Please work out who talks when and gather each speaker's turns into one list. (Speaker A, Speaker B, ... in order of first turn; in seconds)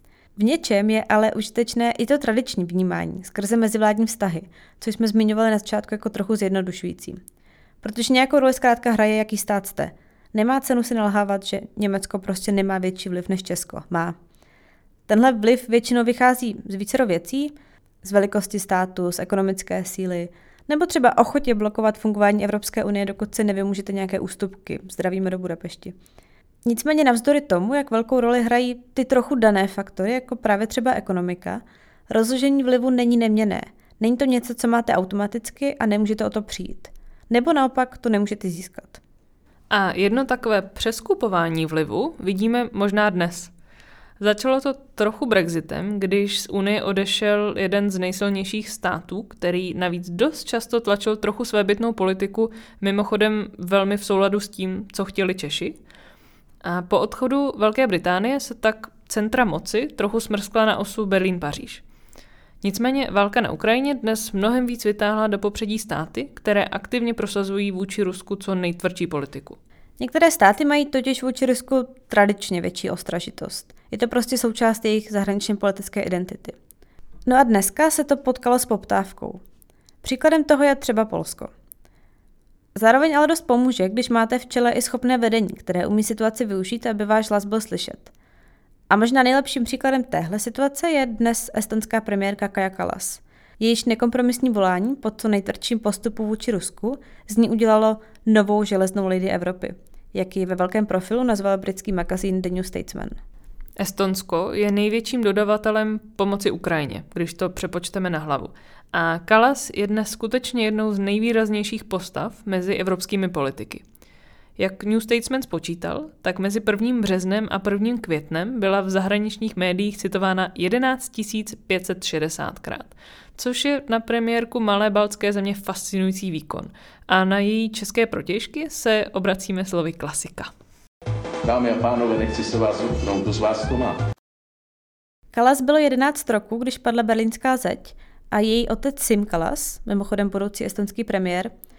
Speaker A: 0.3-7.2, 7.8-14.2, 15.1-25.9, 26.6-39.0, 70.0-76.5, 77.2-79.4, 80.0-81.5, 82.8-88.1, 88.9-103.2, 135.3-141.5
Speaker B: 39.7-43.5, 44.2-55.8, 56.6-61.8, 62.6-69.6, 103.8-113.8, 114.6-130.5
Speaker C: 131.4-134.0